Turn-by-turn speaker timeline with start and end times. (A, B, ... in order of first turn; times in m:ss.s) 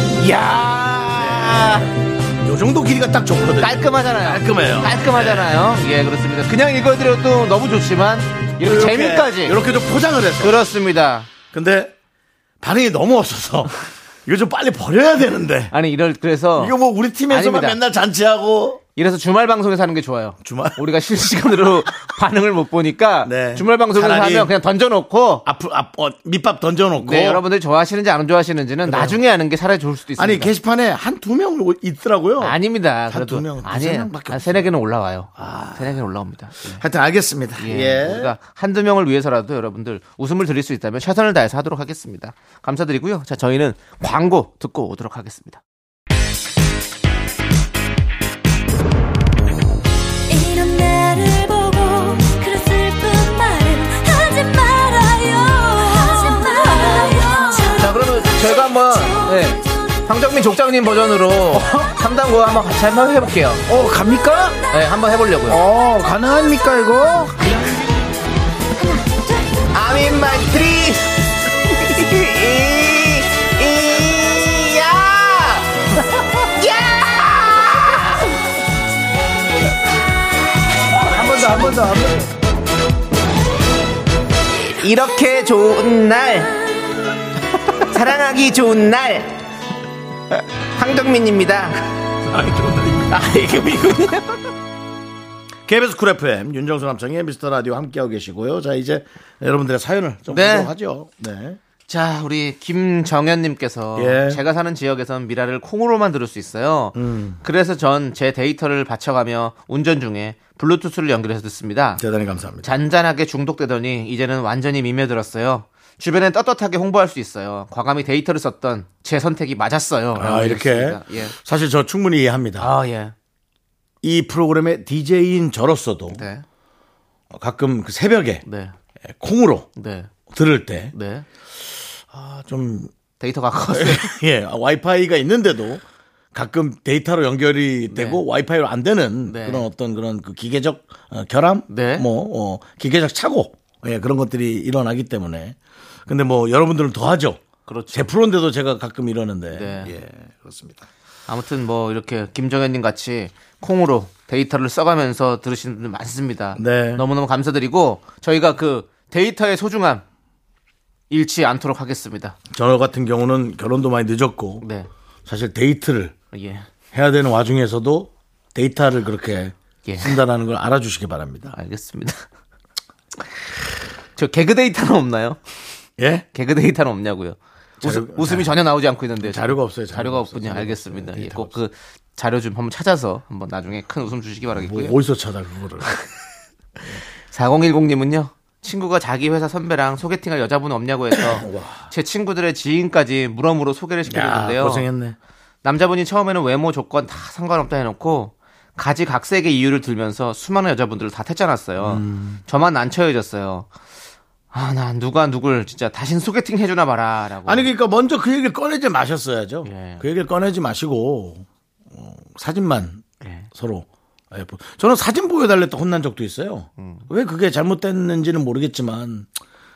0:00.2-0:01.9 A
0:01.2-0:01.9 B
0:02.4-0:05.5 B
0:03.6-0:09.6 A
0:08.6-0:10.6 B
0:10.4-0:11.3 A
0:11.5-0:11.9 B
0:12.6-0:15.7 B
0:15.7-0:16.7 A
0:16.6-0:18.8 B
0:17.3-0:17.8 A
0:19.0-0:25.4 A
0:20.4-0:20.8 B
0:23.2-0:24.5 B
0:25.4-0:27.4 B
0:27.0-0:30.5 A
0:28.8-0:29.2 B
0:30.2-0:34.7 B
0:32.4-0:36.8 A
0:35.4-0:36.0 B
0:36.7-0:38.3 B
0:37.6-0:45.6 A
0:50.3-0:57.9 C
0:57.8-1:03.6 A
1:01.5-1:01.9 B
1:03.6-1:04.6 B
1:04.7-1:05.6 A
1:05.5-1:07.5 B
1:09.7-1:11.1 A
1:11.6-1:15.7 A
1:15.9-1:16.2 B
1:16.6-1:18.1 A
1:20.9-1:22.3 B
1:24.6-1:26.5 A
1:27.8-1:29.4 A
1:30.7-1:31.8 A
1:32.2-1:33.2 B
1:33.1-1:34.4 A
1:35.6-1:41.6 B
1:40.3-1:40.7 A
1:41.9-1:52.0 A
1:44.0-1:44.4 B
1:46.9-1:47.4 B
1:52.0-1:52.7 B
1:52.6-2:01.3 A
2:00.2-2:02.7 B
2:02.6-2:03.1 A
2:04.0-2:06.2 B
2:06.1-2:06.4 A
2:07.3-2:08.4 B
2:08.4-2:08.7 A
2:09.1-2:09.7 B
2:09.8-2:10.1 A
2:10.3-2:10.9 B
2:10.9-2:11.2 A
2:12.1-2:12.9 B
2:13.2-2:14.2 A
2:13.7-2:27.4 B
2:17.9-2:18.2 A
2:19.2-2:19.7 A
2:21.7-2:22.1 A
2:27.7-2:28.1 A
2:27.9-2:30.8 B
2:29.5-2:29.9 A
2:31.3-2:40.0 A
2:36.6-2:37.0 B
2:41.1-2:42.4 A
2:42.5-2:44.6 B
2:44.6-2:44.9 A
2:45.2-2:46.1 B
2:46.3-2:46.7 A
2:46.9-2:51.5 B
2:49.8-2:50.2 A
2:51.5-2:52.2 A
2:54.2-2:55.4 A
2:56.0-2:56.2 B
2:56.3-3:05.0 A
2:57.8-2:58.5 B
2:59.2-3:01.6 B
3:04.5-3:05.9 B
3:07.3-3:14.9 A
3:11.1-3:11.9 B
3:14.1-3:15.2 B
3:15.6-3:23.7 A
3:21.8-3:22.4 B
3:24.5-3:27.7 A
3:27.4-3:39.3 B
3:29.6-3:30.0 A
3:33.2-3:33.5 A
3:36.8-3:37.1 A